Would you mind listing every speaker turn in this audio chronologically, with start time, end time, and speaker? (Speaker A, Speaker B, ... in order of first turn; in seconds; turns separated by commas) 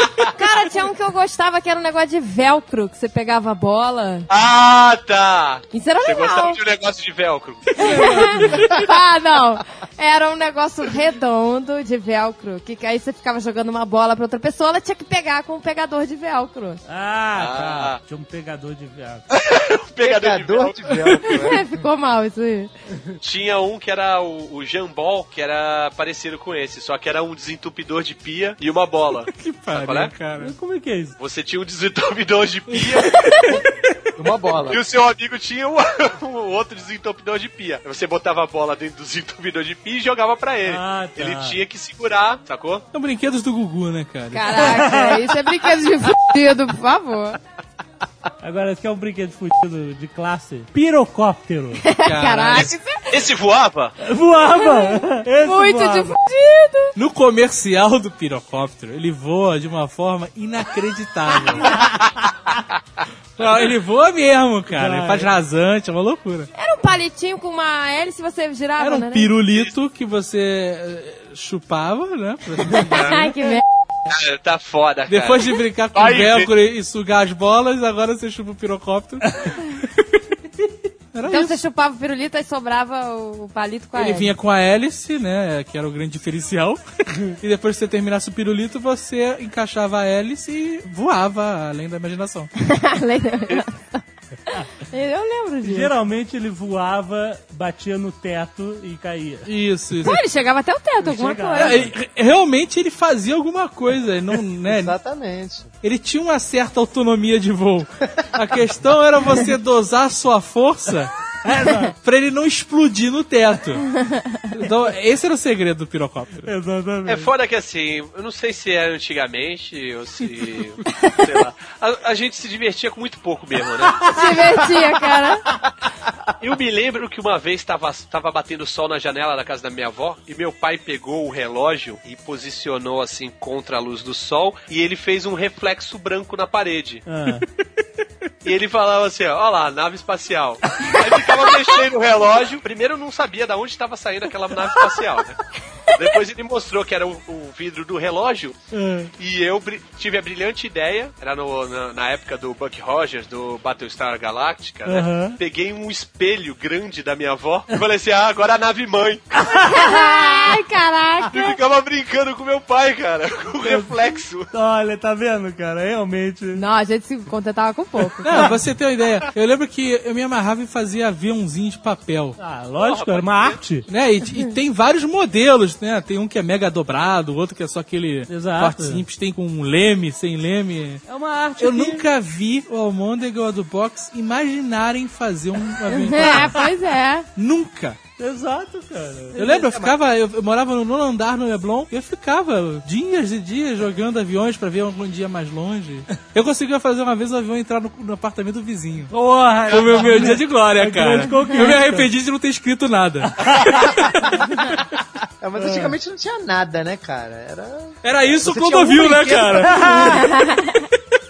Speaker A: 0.3-4.3, Speaker B: 4.3-7.9, Speaker A: 5.7-6.6, Speaker C: 7.7-8.8, Speaker A: 7.8-16.8, Speaker D: 7.9-8.6, Speaker D: 16.9-19.2, Speaker B: 17.4-18.0, Speaker B: 19.3-21.3, Speaker E: 20.0-21.8, Speaker A: 21.3-22.7, Speaker B: 23.2-30.1, Speaker C: 29.2-30.5, Speaker D: 30.4-31.2, Speaker B: 31.2-33.4, Speaker C: 33.4-34.1, Speaker E: 34.2-34.8, Speaker B: 34.6-42.8, Speaker D: 40.7-41.6, Speaker C: 42.9-44.9, Speaker A: 44.3-47.4, Speaker D: 44.7-45.2, Speaker D: 48.4-51.8, Speaker A: 51.8-53.2, Speaker C: 52.0-52.8, Speaker B: 52.5-54.0, Speaker D: 54.0-56.2, Speaker A: 54.5-56.9, Speaker C: 56.9-61.7, Speaker C: 63.4-66.5, Speaker D: 64.7-65.3, Speaker A: 66.5-69.3, Speaker C: 68.8-73.3, Speaker A: 72.7-73.6, Speaker B: 74.1-76.5, Speaker C: 75.1-80.3, Speaker C: 81.1-81.6, Speaker A: 81.2-84.3, Speaker C: 83.9-92.5, Speaker A: 92.6-93.9, Speaker A: 94.7-95.9, Speaker D: 95.6-99.5, Speaker C: 99.5-100.2, Speaker A: 100.0-101.8, Speaker D: 101.0-101.9, Speaker C: 101.5-104.9, Speaker E: 104.6-105.7, Speaker C: 105.8-111.1, Speaker D: 111.4-111.9, Speaker C: 111.9-113.8, Speaker C: 114.5-116.5, Speaker D: 116.5-117.3, Speaker B: 117.1-124.4, Speaker A: 120.9-121.2, Speaker A: 124.1-125.4, Speaker B: 126.4-137.0, Speaker D: 137.1-137.5, Speaker B: 138.4-145.4, Speaker B: 145.9-148.6, Speaker D: 148.7-149.1, Speaker B: 149.2-159.3, Speaker D: 154.8-155.4, Speaker D: 159.4-160.2, Speaker A: 159.5-161.6, Speaker B: 161.3-164.5, Speaker D: 163.6-163.9, Speaker D: 164.5-166.6, Speaker A: 166.5-168.6, Speaker C: 168.2-172.4, Speaker D: 172.4-173.9, Speaker B: 172.8-173.6, Speaker C: 173.9-181.0, Speaker D: 178.3-179.0, Speaker D: 181.1-182.1, Speaker C: 181.6-186.6, Speaker A: 185.9-187.3, Speaker C: 187.3-188.0, Speaker D: 188.2-189.8, Speaker C: 189.3-199.1, Speaker D: 199.1-202.1, Speaker C: 199.7-205.0, Speaker D: 203.4-203.9, Speaker E: 205.4-209.9, Speaker D: 205.6-205.9, Speaker C: 208.0-210.2, Speaker D: 209.7-210.3, Speaker A: 210.1-210.7